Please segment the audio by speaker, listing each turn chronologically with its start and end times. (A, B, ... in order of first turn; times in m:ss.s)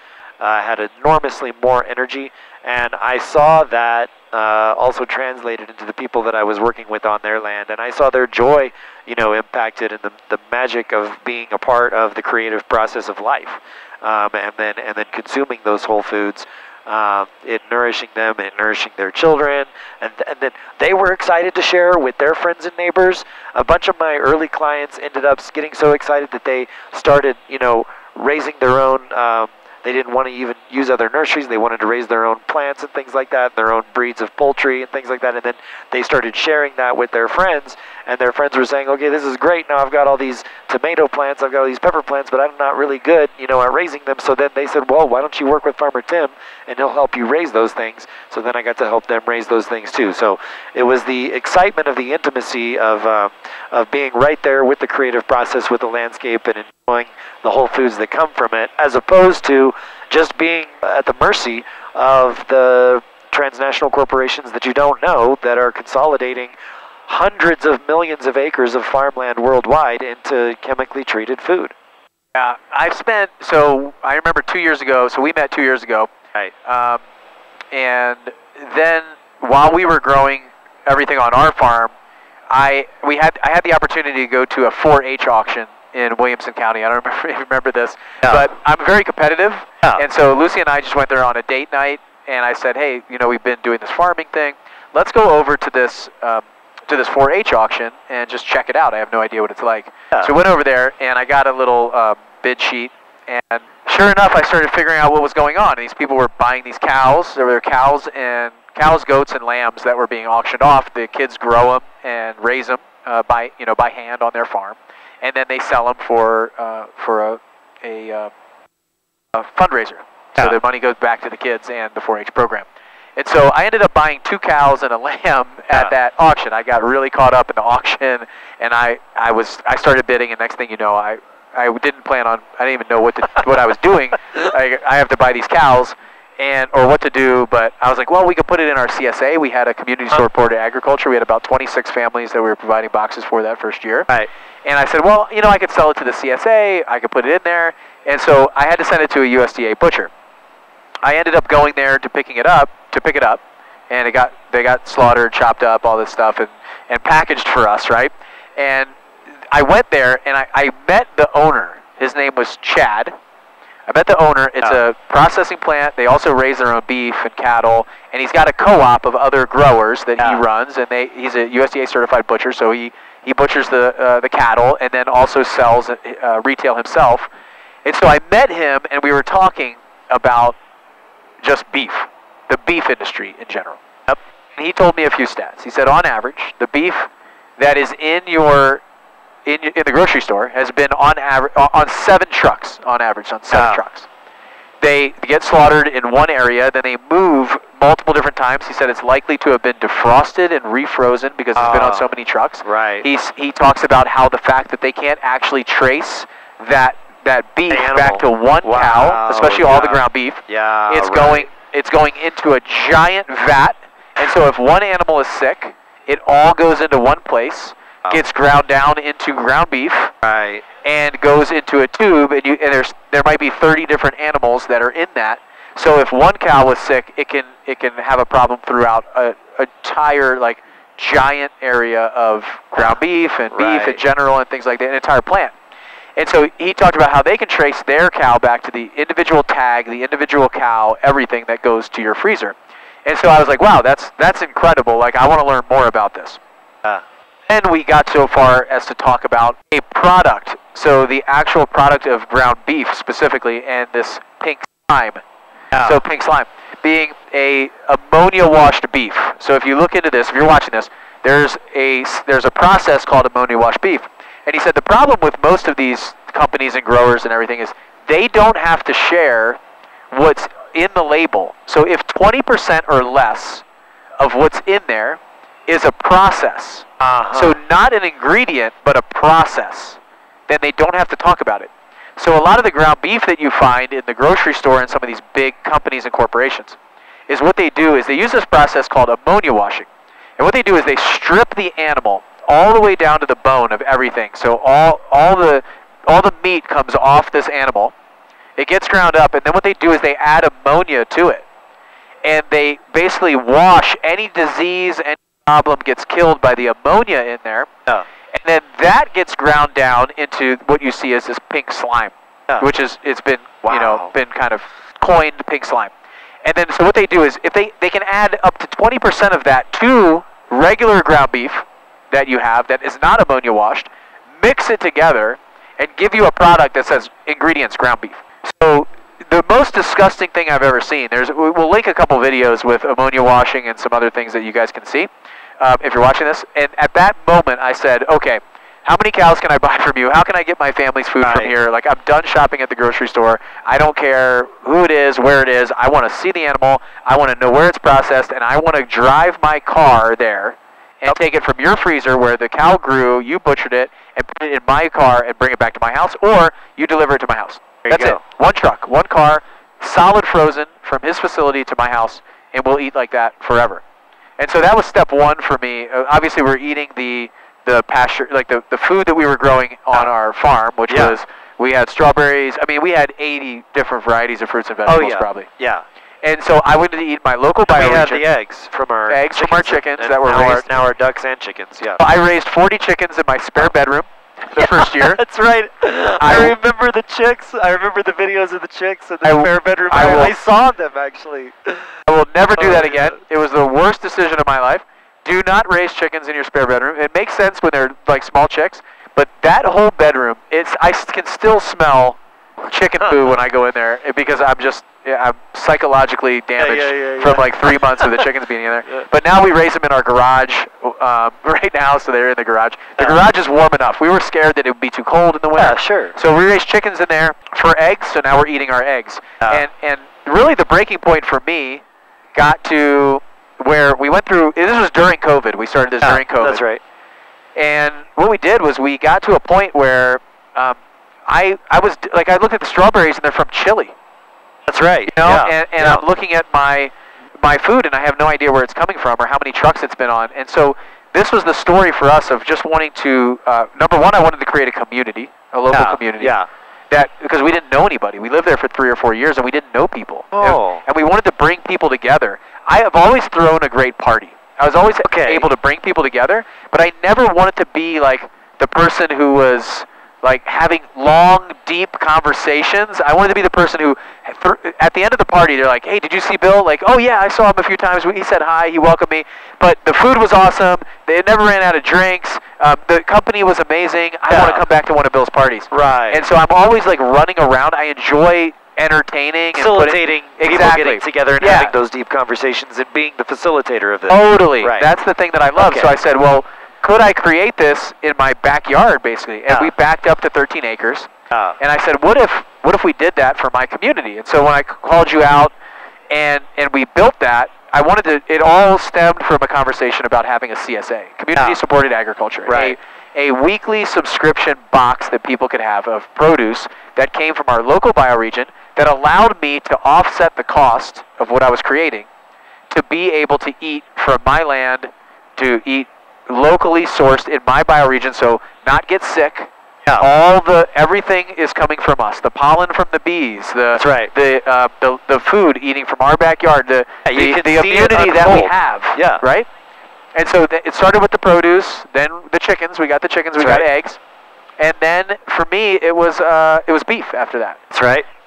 0:00.4-1:06.5 A
1:07.1-1:11.7 A
1:12.3-1:16.1 B
1:16.6-1:17.0 B
1:17.7-1:21.9 B
1:22.5-1:58.3 B
1:28.2-1:28.5 A
1:59.3-2:02.6 B
2:03.2-2:24.1 B
2:24.6-2:30.1 B
2:31.0-2:38.9 B
2:39.5-2:43.1 B
2:43.9-2:57.3 B
2:50.2-2:50.4 A
2:57.8-3:00.6 B
3:01.4-3:03.8 B
3:04.6-3:08.8 B
3:09.4-3:14.1 B
3:13.5-3:13.8 A
3:14.8-3:40.1 B
3:21.6-3:22.1 A
3:22.6-3:23.1 A
3:27.7-3:31.5 A
3:40.2-3:40.6 A
3:40.8-3:55.5 B
3:53.5-3:54.0 A
3:56.2-4:02.5 B
4:03.0-4:06.4 B
4:07.5-4:15.2 B
4:15.7-4:16.0 A
4:15.8-4:29.6 B
4:30.1-4:33.6 B
4:34.2-4:46.8 B
4:37.0-4:37.6 A
4:47.3-4:57.9 B
4:58.6-5:01.4 B
5:02.2-5:07.7 B
5:08.3-5:15.9 B
5:13.6-5:14.1 A
5:16.4-6:03.8 B
5:41.2-5:41.5 A
5:57.8-5:58.2 A
6:04.4-6:15.5 B
6:10.9-6:11.1 A
6:14.8-6:15.8 A
6:16.2-6:18.2 B
6:17.7-6:22.0 A
6:19.1-6:20.8 B
6:22.0-6:25.2 B
6:24.5-6:31.8 A
6:26.2-6:26.5 B
6:29.2-6:30.4 B
6:32.0-7:01.8 B
6:32.6-6:33.1 A
6:46.6-6:48.2 A
6:55.6-6:56.2 A
7:02.3-7:06.6 B
7:06.0-7:06.8 A
7:07.6-7:13.9 B
7:14.7-7:16.0 A
7:15.1-7:26.4 B
7:25.7-7:26.5 A
7:26.9-8:01.7 B
7:30.3-7:30.8 A
7:35.0-7:35.5 A
7:54.3-7:54.6 A
7:55.7-7:56.2 A
7:59.5-8:04.9 A
8:04.1-8:15.5 B
8:05.6-8:05.9 A
8:11.3-8:11.6 A
8:16.1-8:32.1 B
8:22.4-8:22.8 A
8:32.7-8:49.5 B
8:43.7-8:44.1 A
8:47.0-8:49.2 A
8:50.1-8:54.0 B
8:53.4-8:53.6 A
8:54.6-8:57.6 B
8:57.7-8:58.0 A